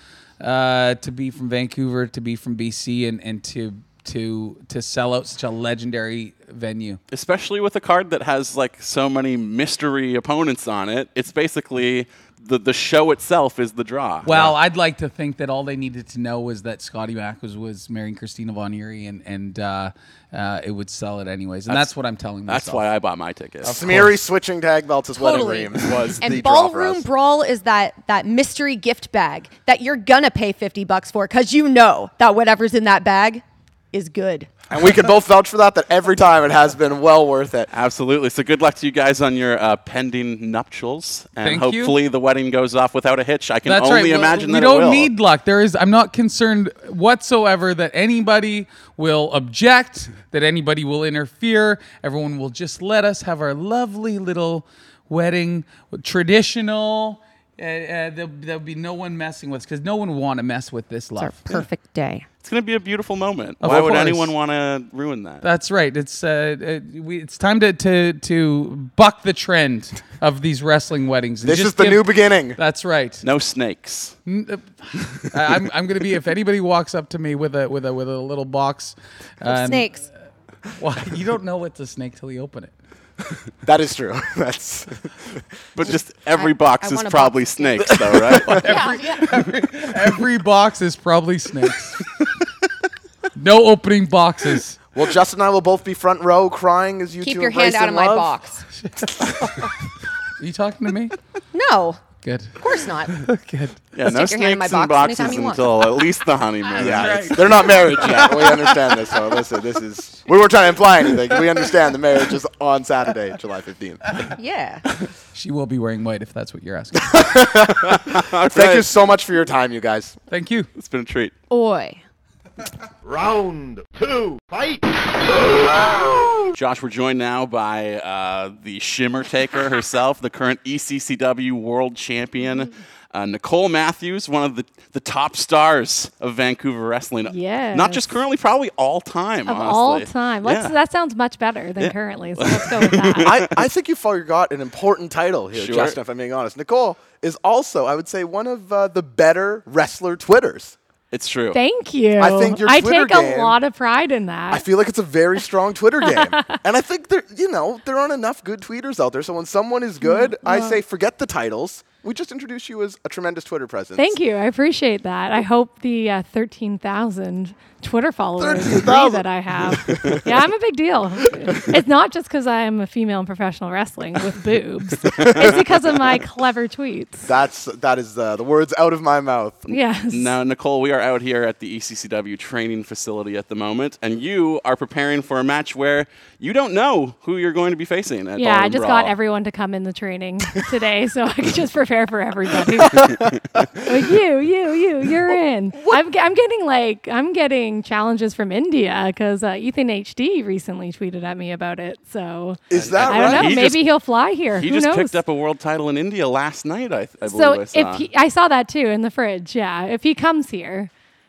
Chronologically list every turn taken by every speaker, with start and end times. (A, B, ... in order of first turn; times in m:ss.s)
0:00.4-0:07.0 A
0:07.1-0:14.5 B
0:14.2-0:22.8 A
0:22.5-0:23.8 B
0:23.6-0:24.2 A
0:23.6-0:27.0 C
0:25.1-0:34.5 D
0:25.7-0:26.4 B
0:34.7-0:37.7 C
0:37.7-0:45.1 B
0:41.4-0:41.9 A
0:43.6-1:01.3 A
1:01.2-1:02.2 D
1:02.4-1:05.4 B
1:03.6-1:04.3 A
1:05.4-1:13.2 A
1:11.4-1:12.6 C
1:13.2-1:14.2 B
1:14.2-1:20.0 A
1:19.4-1:20.0 D
1:20.8-1:22.7 A
1:23.6-1:25.1 C
1:25.7-1:28.6 B
1:26.4-1:29.4 D
1:28.4-1:32.0 A
1:33.4-1:34.8 A
1:34.9-1:38.3 C
1:37.2-1:38.6 D
1:38.8-1:39.7 A
1:40.4-1:41.1 A
1:41.5-1:42.0 D
1:42.2-1:43.8 A
1:42.6-1:43.2 D
1:43.9-1:47.2 B
1:44.0-1:45.8 D
1:46.8-1:48.9 A
1:46.8-1:54.3 C
1:54.3-1:54.8 D
1:55.3-1:57.2 A
1:57.0-2:00.2 C
1:57.6-1:58.9 B
2:00.3-2:00.7 A
2:00.8-2:01.3 B
2:01.5-2:02.0 D
2:03.0-2:06.4 E
2:06.5-2:20.7 B
2:17.3-2:18.0 F
2:19.5-2:23.5 F
2:21.8-2:23.5 B
2:23.2-2:30.7 C
2:25.5-2:26.0 B
2:31.1-2:31.6 B
2:31.5-2:34.6 F
2:32.2-2:33.6 C
2:34.5-2:44.2 C
2:36.0-2:36.5 F
2:40.0-2:40.8 F
2:44.0-2:57.3 F
2:48.4-2:50.4 C
2:55.2-2:55.6 C
2:57.2-2:59.7 C
2:59.7-3:00.3 F
3:00.1-3:09.1 B
3:08.4-3:13.3 F
3:13.8-3:25.2 F
3:22.7-3:23.6 C
3:22.7-3:23.9 B
3:24.6-3:28.0 B
3:27.2-3:30.9 F